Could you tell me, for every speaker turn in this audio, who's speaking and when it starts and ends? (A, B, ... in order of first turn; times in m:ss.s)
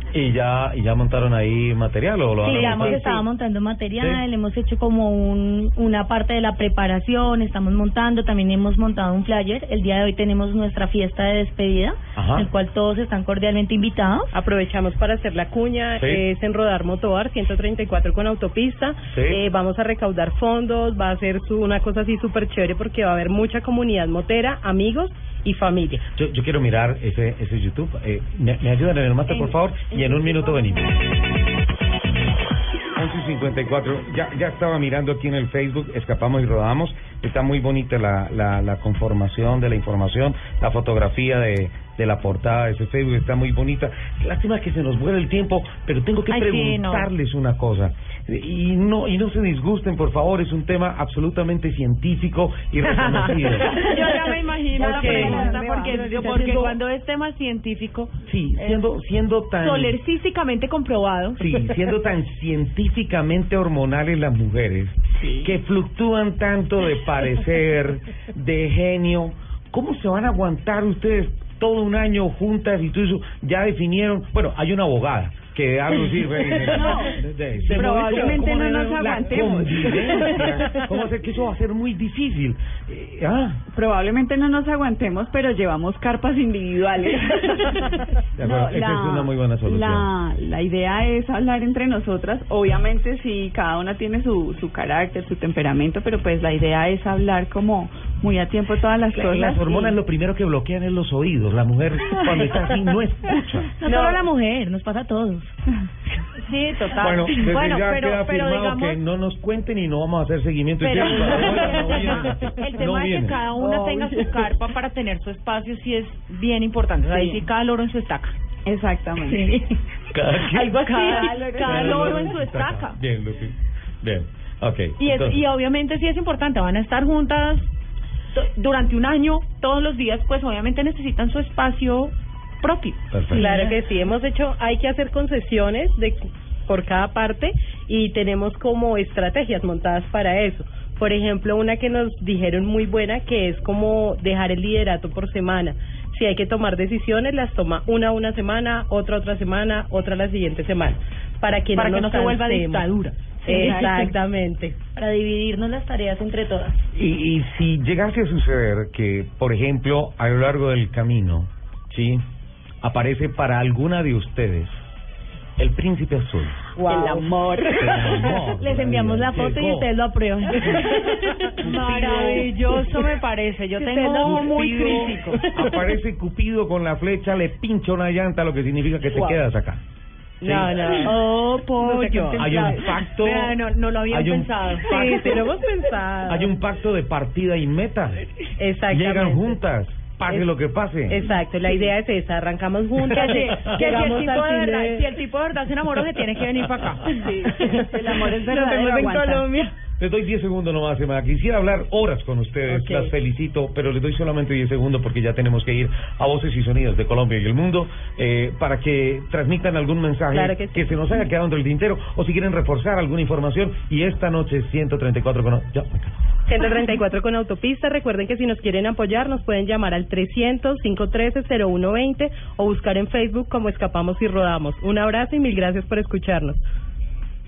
0:00.1-0:03.0 A
0:02.4-0:14.3 B
0:02.4-0:03.2 C
0:04.0-0:04.2 A
0:12.1-0:12.5 A
0:14.3-0:26.0 D
0:19.1-0:19.4 A
0:26.1-0:31.0 A
0:29.4-0:30.4 E
0:33.0-0:53.9 A
0:46.3-0:47.1 C
0:52.8-0:58.8 C
0:53.7-0:56.8 E
0:54.8-0:55.4 D
0:58.2-1:00.0 A
0:59.6-1:01.7 C
1:01.4-1:23.6 A
1:05.2-1:05.5 E
1:16.7-1:17.1 E
1:16.7-1:17.1 C
1:17.7-1:20.7 E
1:17.7-1:18.4 C
1:23.7-1:40.0 E
1:28.4-1:30.1 A
1:39.1-1:43.7 A
1:43.8-1:45.5 B
1:43.8-1:44.2 C
1:46.4-1:49.0 C
1:47.0-1:53.4 A
1:50.8-1:58.3 C
1:53.4-1:54.4 E
1:57.1-1:57.4 E
1:58.6-1:59.5 E
1:59.3-1:59.8 B
2:00.1-2:00.9 A
2:00.4-2:03.0 C
2:00.7-2:02.4 E
2:01.6-2:05.4 A
2:05.0-2:07.7 C
2:08.3-2:13.7 C
2:13.1-2:13.6 A
2:13.3-2:32.9 D
2:31.7-2:34.1 C
2:33.4-2:34.7 D
2:33.5-2:34.0 E
2:34.9-2:36.8 B
2:36.9-2:42.2 A
2:42.8-2:44.8 A
2:45.6-2:46.7 A
2:46.8-2:47.3 D
2:46.8-2:48.3 E
2:47.7-2:49.9 A
2:48.5-2:51.1 B
2:50.9-2:51.6 D
2:51.6-2:55.4 C
2:51.7-2:52.3 E
2:53.8-2:55.9 D
2:54.2-2:59.8 A
2:59.1-2:59.4 D
3:00.4-3:01.2 D
3:00.4-3:01.0 A
3:00.8-3:05.5 C
3:01.7-3:02.8 D
3:02.3-3:04.5 A
3:04.8-3:06.5 D
3:06.2-3:08.2 A
3:08.6-3:09.6 D
3:08.9-3:11.2 A
3:10.2-3:10.5 D
3:11.1-3:15.1 D
3:13.0-3:19.7 C
3:13.5-3:13.9 A
3:17.1-3:19.5 E
3:20.0-3:36.2 A
3:22.7-3:23.1 D
3:30.3-3:31.0 D
3:36.5-3:46.6 D